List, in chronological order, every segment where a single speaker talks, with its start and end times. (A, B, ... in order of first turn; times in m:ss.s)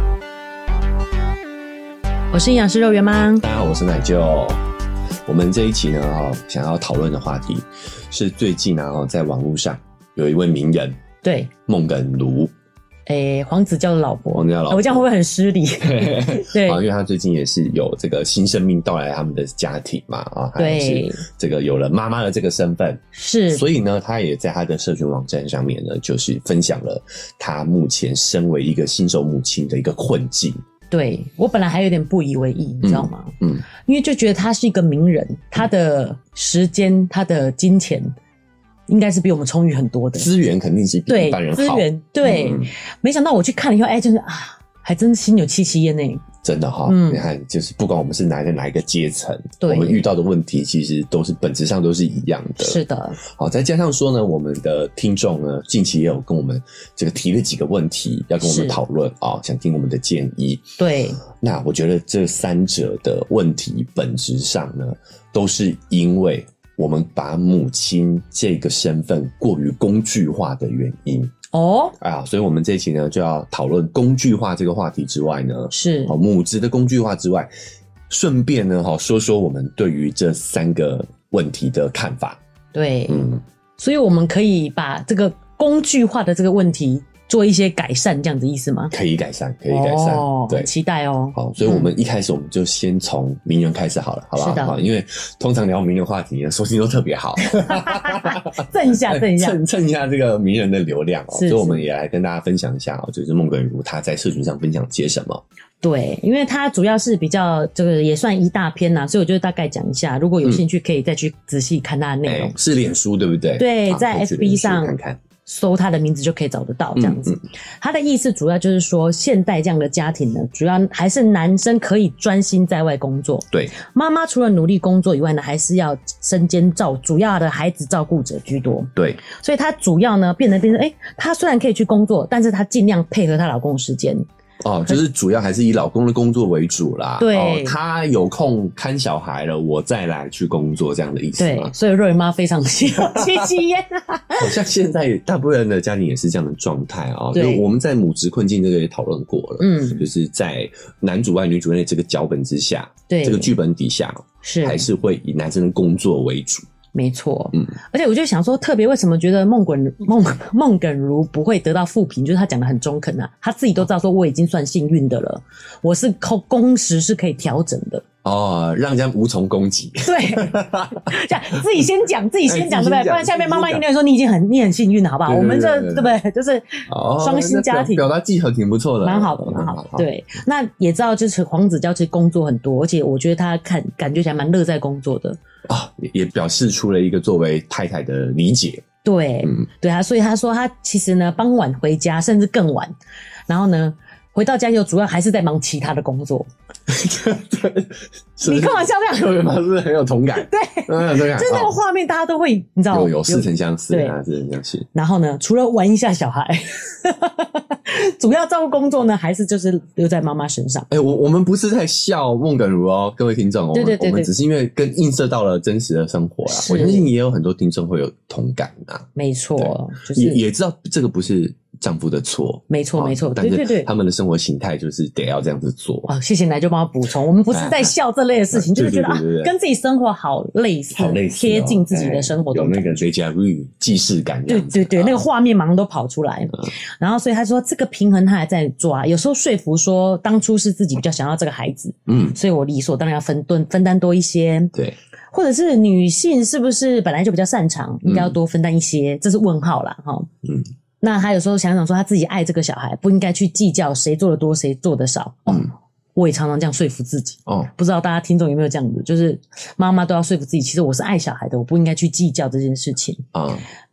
0:02.3-0:03.4 A
0:03.4-0:04.6 B
0:05.3-0:11.0 B
0:11.2-0:11.5 A
0:11.7-0:12.5 B
0:13.1-0:16.8 A
0:14.3-0:15.0 B
0:15.8-0:30.6 B
0:20.6-0:21.2 A
0:23.1-0:23.6 A
0:30.9-0:38.1 A
0:32.8-0:33.7 B
0:38.9-0:40.3 A
0:40.2-0:42.7 B
0:41.1-0:46.2 A
0:46.4-1:00.7 B
0:46.9-0:47.3 A
0:49.6-0:50.0 A
0:52.6-0:53.2 A
0:58.4-0:58.8 A
1:00.8-1:01.2 A
1:01.3-1:11.4 B
1:11.5-1:12.0 A
1:12.0-1:17.5 B
1:15.7-1:16.2 A
1:18.1-1:22.4 B
1:22.7-1:23.3 A
1:23.1-1:23.4 B
1:23.8-1:28.9 A
1:28.9-1:30.7 B
1:29.7-1:31.9 A
1:31.4-1:45.4 B
1:34.4-1:34.8 A
1:37.4-1:39.6 A
1:41.3-1:41.8 A
1:45.8-1:52.6 A
1:52.2-1:55.2 B
1:53.6-2:14.3 A
1:57.0-1:57.4 B
2:09.0-2:09.2 B
2:14.6-2:21.7 B
2:17.2-2:17.8 A
2:21.4-2:24.5 A
2:23.0-2:23.5 B
2:24.4-2:36.7 B
2:27.3-2:27.7 A
2:29.6-2:30.0 A
2:33.1-2:33.5 A
2:34.4-2:34.9 A
2:36.9-2:48.0 A
2:48.2-2:51.2 B
2:50.0-2:58.1 A
2:52.4-2:53.8 B
2:55.3-2:56.2 B
2:56.9-3:00.1 B
2:59.0-3:05.4 A
3:05.7-3:08.8 B
3:09.0-3:12.9 A
3:13.5-3:16.5 A
3:16.9-3:21.8 B
3:18.4-3:19.3 A
3:20.4-3:24.2 A
3:22.9-3:24.9 B
3:24.9-3:30.9 A
3:30.9-3:46.1 B
3:33.7-3:34.3 A
3:36.5-3:37.1 A
3:39.2-3:40.4 A
3:42.7-3:43.9 A
3:46.1-3:53.0 A
3:47.5-3:47.9 B
3:48.5-3:49.5 B
3:50.9-3:55.2 B
3:54.5-4:04.7 A
4:02.1-4:02.4 B
4:05.3-4:10.3 A
4:08.0-4:08.4 B
4:11.0-4:23.2 A
4:23.3-4:23.6 B